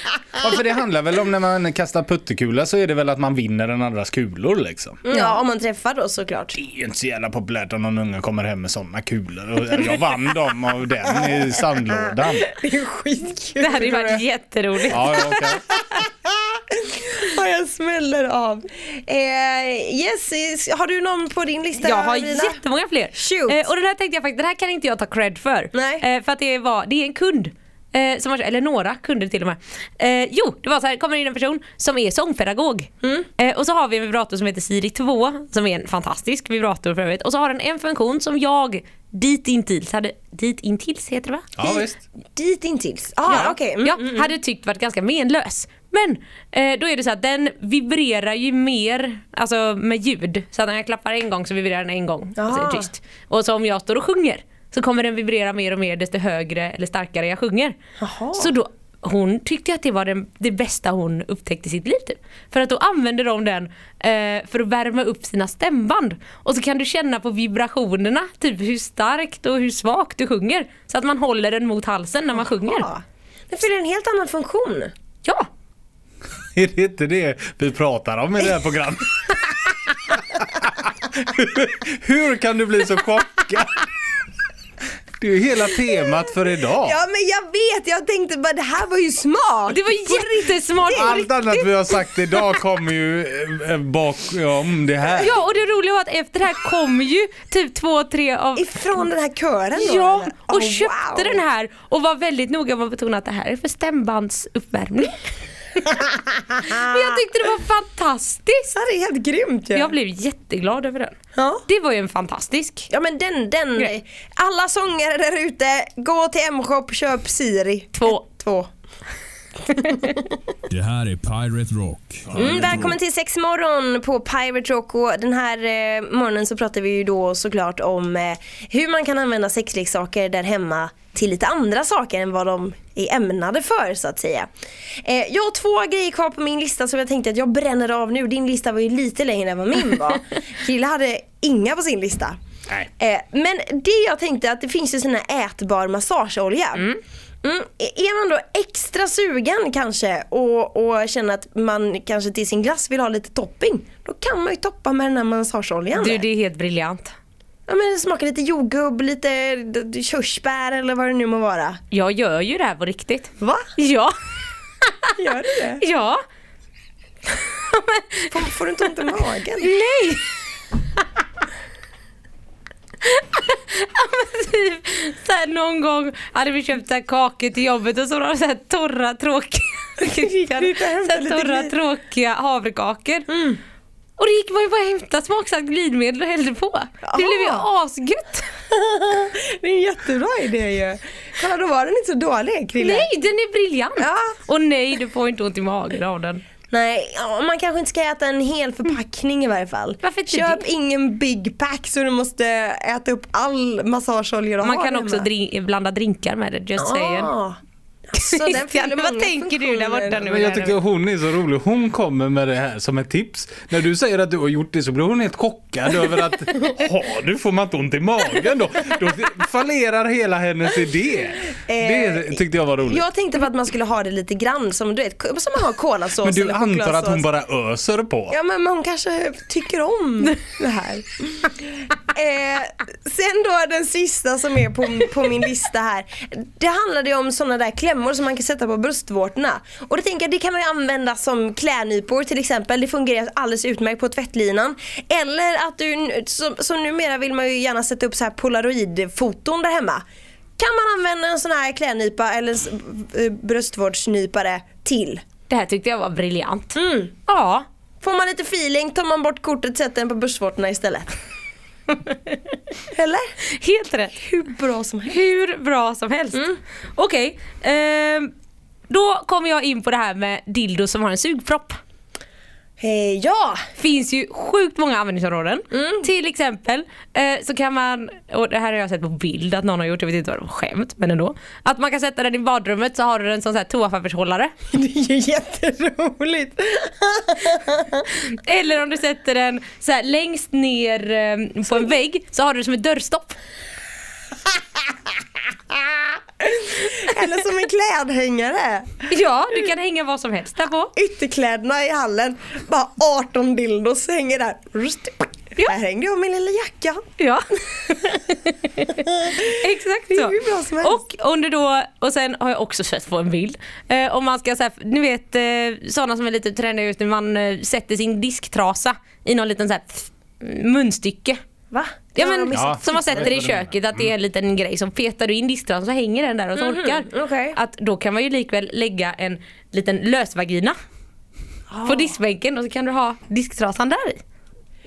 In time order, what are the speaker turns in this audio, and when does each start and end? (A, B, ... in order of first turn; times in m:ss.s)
0:00.4-0:05.0 A
0:05.0-0:06.6 B
0:05.1-0:05.4 C
0:06.5-0:12.5 A
0:12.4-0:14.2 B
0:13.6-0:15.2 C
0:14.9-0:15.6 A
0:15.0-0:22.6 B
0:21.8-0:41.5 C
0:23.1-0:23.6 B
0:25.7-0:26.0 B
0:41.6-0:42.0 A
0:41.6-0:44.3 B
0:43.3-0:57.8 C
0:52.4-0:52.9 B
0:58.0-0:58.5 B
0:58.4-1:12.9 C
1:12.4-1:14.9 B
1:16.5-1:19.5 A
1:20.1-1:23.8 A
1:25.2-1:27.0 A
1:26.8-1:31.2 B
1:29.7-1:31.7 C
1:30.9-1:35.3 A
1:35.2-1:38.6 C
1:38.6-1:41.4 B
1:39.8-1:45.2 C
1:45.8-1:47.2 B
1:46.6-1:48.7 C
1:48.7-1:49.9 B
1:49.7-1:51.1 C
1:51.3-1:51.6 B
1:51.7-1:52.9 C
1:52.9-1:58.7 B
1:58.0-1:58.2 C
1:59.7-2:00.3 B
2:00.7-2:03.0 D
2:02.3-2:14.5 B
2:15.0-2:22.4 B
2:23.0-2:26.9 B
2:26.7-2:27.0 C
2:27.4-2:36.2 B
2:35.9-2:37.1 C
2:37.7-2:41.8 B
2:41.9-2:44.1 C
2:43.4-2:43.7 B
2:44.8-2:45.1 C
2:45.2-2:45.8 B
2:45.8-2:46.2 C
2:47.5-2:48.3 C
2:48.3-2:49.7 B
2:49.6-2:50.2 C
2:53.0-3:03.3 C
3:00.0-3:01.7 B
3:03.3-3:03.6 B
3:04.2-3:08.5 C
3:07.0-3:07.6 B
3:08.7-3:13.1 B
3:12.8-3:16.4 C
3:14.0-3:14.4 B
3:16.7-3:25.3 B
3:20.0-3:20.6 C
3:24.6-3:27.3 C
3:26.8-3:27.6 B
3:28.1-3:30.2 B
3:28.2-3:30.7 C
3:30.2-3:43.0 A
3:41.7-3:47.2 B
3:46.2-3:48.4 A
3:48.3-4:10.0 B
4:10.6-4:15.2 B
4:15.5-4:17.6 C
4:16.8-4:17.1 B
4:18.0-4:21.1 B
4:22.9-4:23.3 B
4:23.5-4:24.2 C
4:24.2-4:25.2 B
4:25.1-4:28.3 C
4:28.9-4:31.8 C
4:32.8-4:33.6 B
4:33.8-4:44.5 C
4:35.7-4:36.0 B
4:44.7-4:48.0 B
4:48.2-4:53.4 C
4:55.7-4:59.0 B
4:59.1-5:00.9 C
5:01.0-5:07.0 B
5:07.2-5:21.4 C
5:09.2-5:09.6 B
5:10.1-5:11.0 B
5:21.7-5:23.4 B
5:22.2-5:30.8 C
5:22.5-5:23.7 A
5:26.6-5:27.6 B
5:31.7-5:32.1 B
5:31.8-5:34.2 C